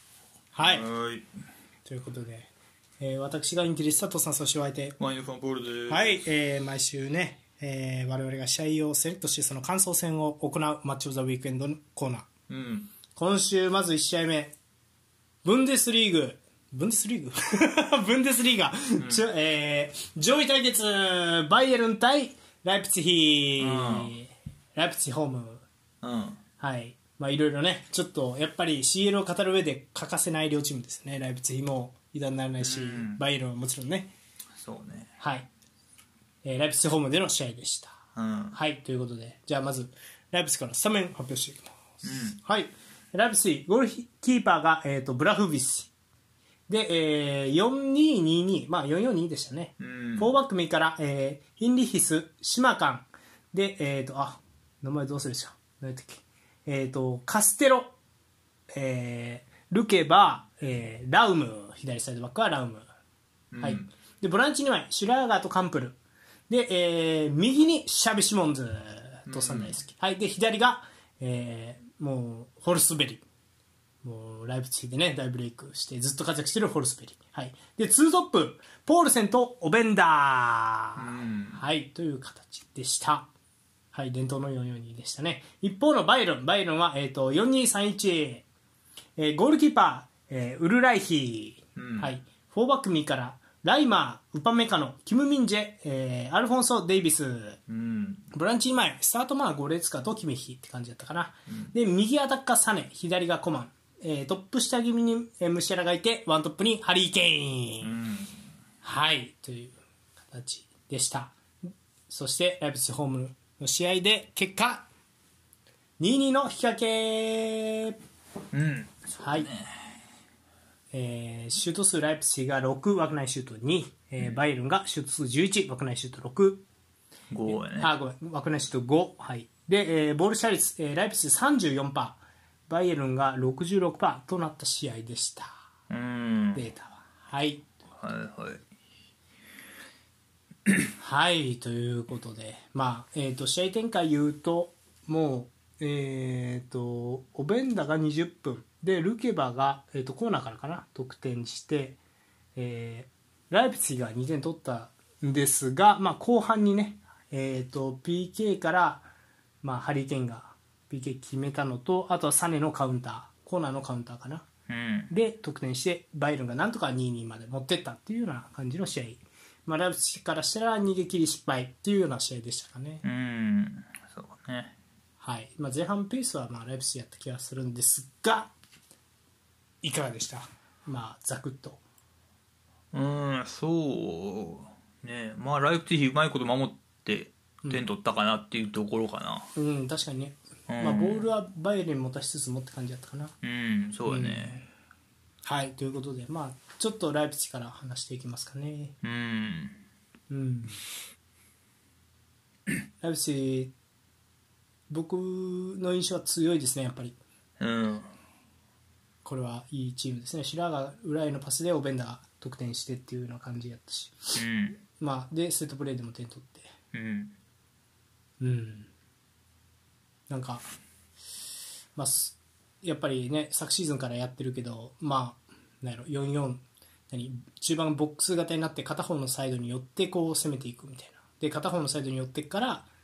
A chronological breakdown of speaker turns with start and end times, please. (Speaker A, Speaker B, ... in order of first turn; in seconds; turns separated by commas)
Speaker A: 0.5-0.9, Speaker B: 0.6-1.3, Speaker A: 1.9-5.0, Speaker B: 5.0-6.2, Speaker A: 5.9-12.3, Speaker B: 12.5-12.9, Speaker A: 13.1-14.5, Speaker A: 15.4-25.6, Speaker B: 19.0-19.2, Speaker B: 23.6-24.1, Speaker B: 26.0-26.4, Speaker A: 26.6-34.1, Speaker B: 32.6-33.2, Speaker B: 34.5-35.1, Speaker A: 35.2-35.5, Speaker A: 36.4-38.0, Speaker B: 38.1-38.6, Speaker A: 38.5-45.9, Speaker B: 42.0-42.4, Speaker A: 46.7-57.9, Speaker B: 49.8-50.3, Speaker A: 58.7-62.9, Speaker B: 63.5-63.9, Speaker A: 63.6-66.0, Speaker A: 66.5-73.2, Speaker B: 69.3-69.8, Speaker A: 74.0-83.3, Speaker B: 81.0-81.6, Speaker A: 83.9-88.4, Speaker A: 89.2-97.6, Speaker B: 91.8-92.1, Speaker B: 97.7-98.2, Speaker A: 98.3-107.9, Speaker B: 107.8-108.3, Speaker A: 108.8-109.8, Speaker A: 110.3-111.3, Speaker A: 112.1-114.9, Speaker A: 116.0-118.0, Speaker B: 118.5-120.0, Speaker A: 119.2-119.5, Speaker A: 120.9-126.6, Speaker B: 127.3-127.9, Speaker A: 127.5-135.5, Speaker B: 135.9-136.7, Speaker A: 136.5-137.6, Speaker B: 137.9-138.7, Speaker A: 141.0-152.0, Speaker A: 152.6-159.1, Speaker A: 159.6-164.4, Speaker B: 164.7-165.1, Speaker A: 165.1-173.0, Speaker B: 173.0-174.8, Speaker A: 175.2-178.5, Speaker A: 179.8-181.8, Speaker B: 182.9-189.5, Speaker A: 189.6-193.3, Speaker B: 190.7-191.2, Speaker B: 193.4-194.6, Speaker A: 194.1-194.7, Speaker A: 195.4-198.9, Speaker B: 199.0-199.8, Speaker A: 200.3-200.8, Speaker A: 203.0-203.7, Speaker A: 204.9-207.2, Speaker B: 207.6-208.1, Speaker A: 209.2-214.4, Speaker B: 214.3-214.8, Speaker A: 215.0-216.7, Speaker B: 216.9-217.3, Speaker A: 218.4-218.9, Speaker A: 220.3-220.7, Speaker A: 221.9-232.9